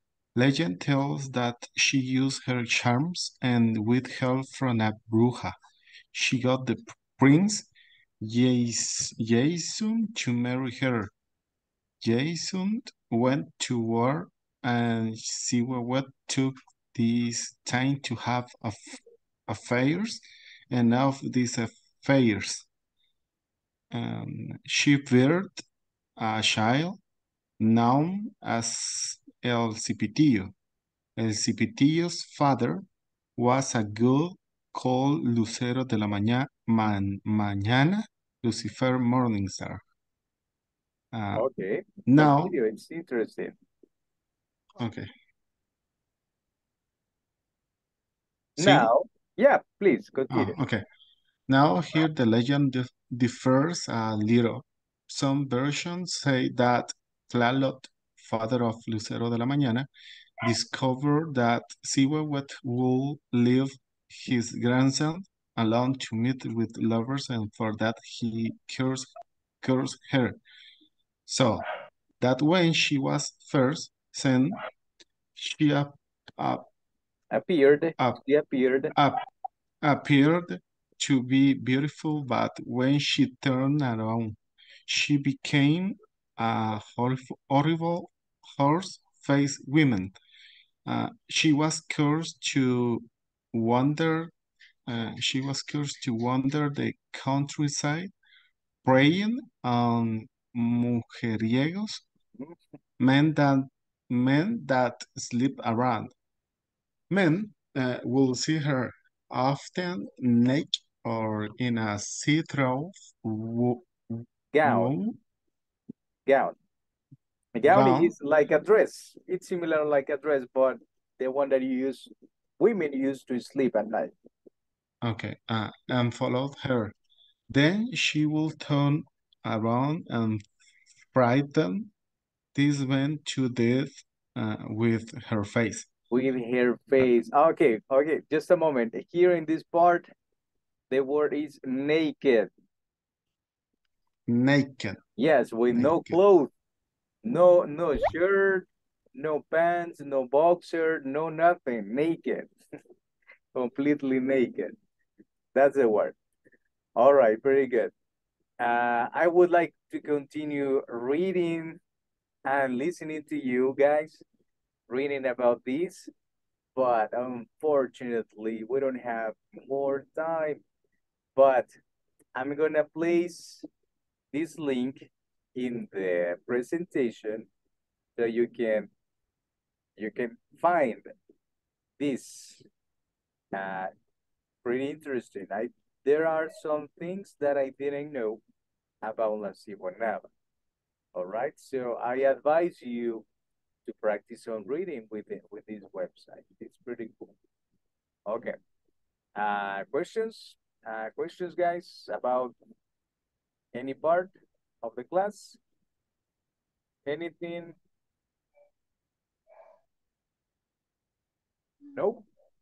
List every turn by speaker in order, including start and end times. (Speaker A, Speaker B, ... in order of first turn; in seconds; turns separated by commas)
Speaker A: 0.3-5.5, Speaker A: 6.1-7.7, Speaker A: 8.2-11.1, Speaker A: 12.0-22.7, Speaker A: 23.9-25.6, Speaker A: 26.2-27.0, Speaker A: 27.6-30.5, Speaker A: 31.2-32.9, Speaker A: 33.4-39.8, Speaker A: 41.1-41.5, Speaker B: 41.3-43.5, Speaker A: 42.1-42.5, Speaker A: 44.8-45.1, Speaker B: 48.6-50.6, Speaker A: 48.6-48.9, Speaker A: 50.3-50.8, Speaker A: 51.5-59.9, Speaker A: 60.4-69.1, Speaker A: 69.6-70.4, Speaker A: 71.3-71.7, Speaker A: 72.2-74.6, Speaker A: 75.4-76.7, Speaker B: 77.3-78.9, Speaker A: 78.9-79.2, Speaker A: 79.8-90.2, Speaker A: 90.9-94.3, Speaker A: 94.9-98.1, Speaker A: 98.8-102.0, Speaker A: 103.0-106.1, Speaker A: 107.1-115.2, Speaker B: 114.5-114.9, Speaker B: 116.3-116.5, Speaker B: 117.5-124.1, Speaker A: 117.7-118.1, Speaker A: 125.0-126.9, Speaker A: 127.5-130.4, Speaker A: 131.1-131.9, Speaker A: 132.5-135.9, Speaker B: 136.1-140.1, Speaker B: 140.9-142.5, Speaker A: 144.3-145.0, Speaker B: 145.2-146.5, Speaker A: 145.7-146.2, Speaker B: 147.2-152.5, Speaker B: 153.6-154.8, Speaker B: 155.6-156.2, Speaker B: 157.0-157.9, Speaker B: 158.6-161.8, Speaker B: 162.5-164.2, Speaker B: 164.9-166.1, Speaker B: 166.8-170.6, Speaker B: 171.4-171.7, Speaker B: 172.3-173.7, Speaker B: 174.3-177.5, Speaker B: 178.2-178.9, Speaker B: 180.0-181.1, Speaker B: 182.0-182.7, Speaker B: 183.5-183.9, Speaker B: 184.6-188.4, Speaker B: 189.0-190.3, Speaker B: 191.2-193.2, Speaker B: 193.9-197.3, Speaker B: 198.3-198.6, Speaker B: 199.4-202.5, Speaker B: 203.8-205.6, Speaker B: 207.1-207.8, Speaker B: 211.9-212.3